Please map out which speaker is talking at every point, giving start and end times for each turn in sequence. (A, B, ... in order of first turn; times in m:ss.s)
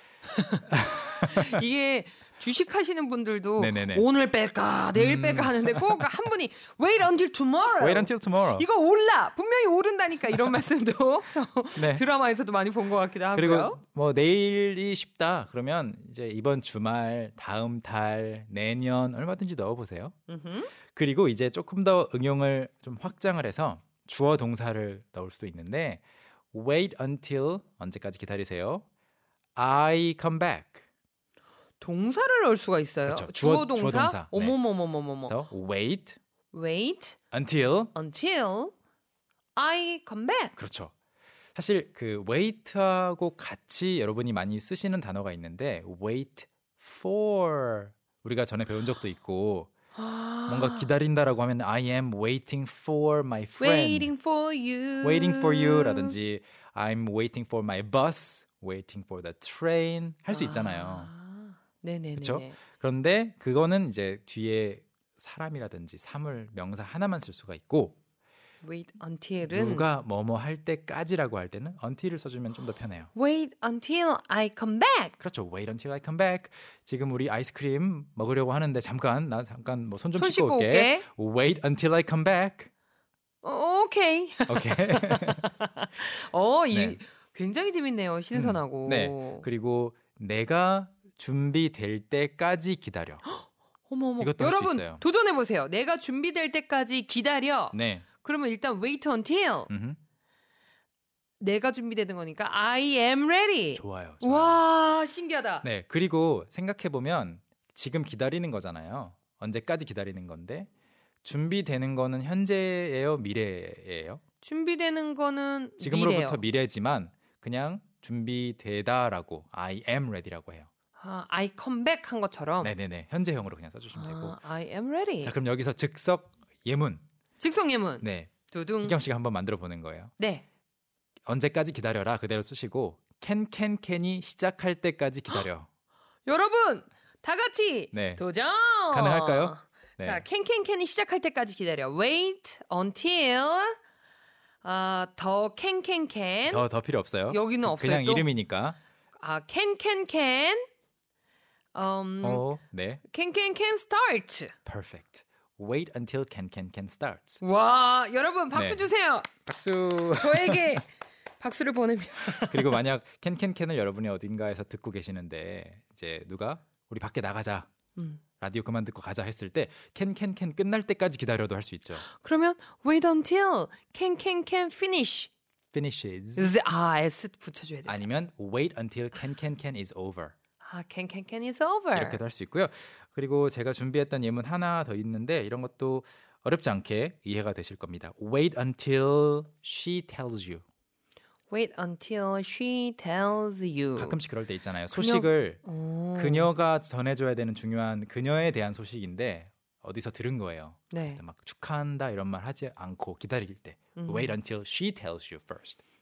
0:00.3-0:00.7 A
0:00.7-0:01.6 B
0:01.3-0:13.8 A
0:03.6-0:04.1 B
0:05.0-0:06.1 B
0:07.8-0:08.7 B
0:11.8-0:12.0 B
0:13.3-0:20.2 B
0:20.3-0:20.7 A
0:20.9-0:28.8 B
0:29.6-0:30.8 B
0:31.8-0:35.4 A
0:33.0-0:34.6 B
0:35.2-0:36.2 B
0:36.5-0:37.2 A
0:37.3-0:37.9 B
0:37.9-0:38.7 A
0:39.6-0:40.5 A
0:40.6-0:40.9 B
0:41.6-0:49.7 B
0:50.0-0:50.9 A
0:50.5-0:54.1 B
0:53.6-0:56.2 A
0:55.0-1:01.1 B
1:00.3-1:02.6 A
1:02.2-1:08.0 B
1:08.6-1:09.9 A
1:09.5-1:13.1 B
1:13.1-1:15.1 A
1:15.2-1:22.7 B
1:20.2-1:21.1 A
1:23.4-1:29.5 A
1:24.5-1:25.4 B
1:26.7-1:27.0 B
1:28.3-1:33.2 B
1:33.3-1:39.7 A
1:34.2-1:35.0 B
1:37.7-1:38.1 B
1:39.7-1:40.0 B
1:41.4-1:45.7 A
1:43.8-1:44.6 B
1:45.6-1:50.7 B
1:51.2-1:54.2 B
1:54.4-1:56.4 A
1:55.8-2:00.7 B
2:01.0-2:02.8 A
2:02.6-2:04.4 B
2:04.0-2:05.4 A
2:05.2-2:07.0 B
2:07.4-2:09.0 A
2:08.0-2:10.1 B
2:10.2-2:10.4 A
2:11.3-2:15.7 B
2:16.3-2:23.8 A
2:17.9-2:18.2 B
2:18.9-2:20.2 B
2:24.6-2:26.7 A
2:26.5-2:28.8 B
2:27.3-2:28.3 A
2:29.2-2:30.7 A
2:31.7-2:32.5 A
2:32.2-2:33.0 B
2:33.0-2:34.5 A
2:34.7-2:37.4 B
2:37.4-2:39.3 A
2:38.5-2:38.9 B
2:39.5-2:40.8 B
2:40.1-2:40.9 A
2:41.4-2:42.8 A
2:42.4-2:47.7 B
2:48.0-2:48.2 A
2:48.4-2:52.1 B
2:52.1-2:55.3 A
2:55.7-2:56.5 B
2:56.4-2:58.0 A
2:57.9-3:00.3 B
3:00.6-3:02.2 A
3:01.9-3:10.6 B
3:11.5-3:14.2 A
3:14.0-3:15.6 B
3:14.9-3:16.5 A
3:16.2-3:25.8 B
3:20.9-3:21.2 A
3:24.0-3:24.4 A